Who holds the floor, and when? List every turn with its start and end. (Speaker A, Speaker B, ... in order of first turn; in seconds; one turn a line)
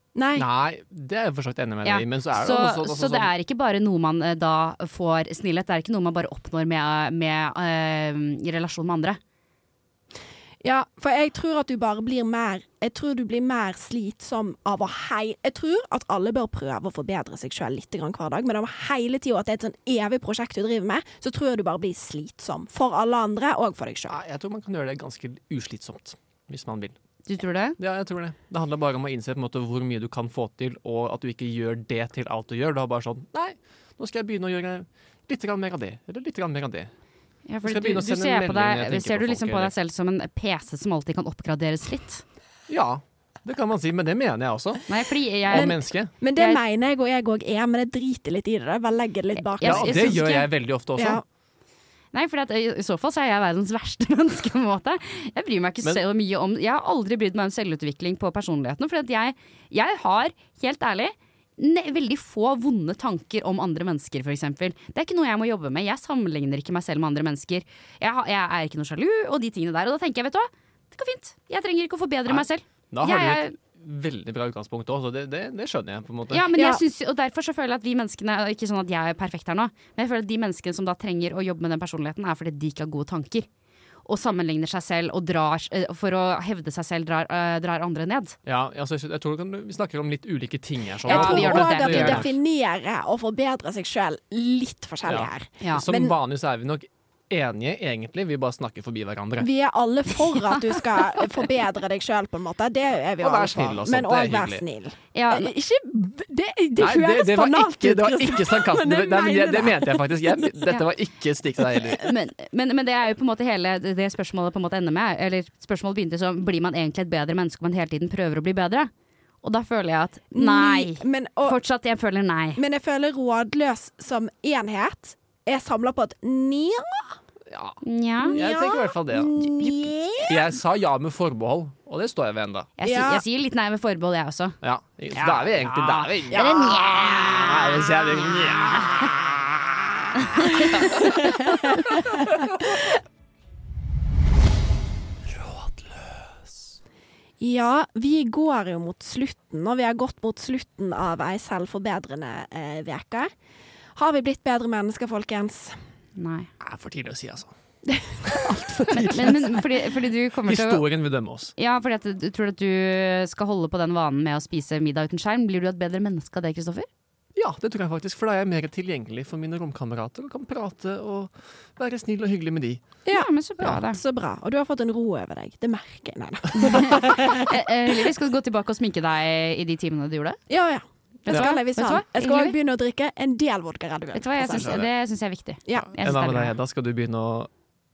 Speaker A: 0.1-0.5
Speaker B: 0.3-3.3
Speaker C: 1.9-9.2
Speaker A: 10.6-24.2
Speaker B: 24.1-27.0
Speaker C: 27.3-27.8
Speaker B: 27.8-36.9
Speaker C: 37.5-42.2
Speaker B: 37.6-39.7
Speaker B: 42.7-44.9
Speaker C: 44.9-45.8
Speaker B: 45.5-46.1
Speaker A: 45.5-51.2
Speaker C: 49.4-50.5
Speaker B: 49.6-51.2
Speaker C: 52.1-73.5
Speaker B: 72.3-76.5
Speaker C: 76.3-83.5
Speaker A: 76.5-76.8
Speaker C: 84.1-88.4
Speaker B: 88.5-92.4
Speaker A: 91.1-96.1
Speaker C: 91.1-92.3
Speaker B: 95.1-99.5
Speaker A: 99.4-110.5
Speaker B: 103.2-104.6
Speaker C: 105.1-105.5
Speaker B: 106.8-112.0
Speaker C: 112.0-118.9
Speaker C: 119.4-122.6
Speaker A: 120.3-121.6
Speaker A: 122.6-127.2
Speaker B: 127.5-129.3
Speaker C: 127.8-128.4
Speaker A: 128.2-130.4
Speaker B: 130.2-132.7
Speaker C: 132.8-134.6
Speaker A: 132.8-133.2
Speaker B: 134.6-136.7
Speaker C: 135.1-137.9
Speaker A: 136.3-137.1
Speaker B: 137.2-139.0
Speaker C: 140.2-141.0
Speaker B: 140.7-141.2
Speaker A: 140.9-142.3
Speaker B: 141.9-142.3
Speaker B: 145.3-146.1
Speaker A: 147.4-153.3
Speaker A: 154.0-155.8
Speaker C: 156.2-156.5
Speaker B: 156.6-157.5
Speaker A: 157.9-159.1
Speaker B: 158.3-159.6
Speaker C: 158.9-160.9
Speaker B: 160.4-161.5
Speaker C: 161.6-166.9
Speaker B: 167.3-172.8
Speaker A: 173.1-177.5
Speaker C: 173.1-174.0
Speaker C: 176.6-180.4
Speaker A: 180.5-184.8
Speaker C: 181.2-182.6
Speaker B: 181.3-181.6
Speaker C: 184.1-186.6
Speaker B: 184.4-184.9
Speaker A: 185.7-185.9
Speaker B: 185.7-187.5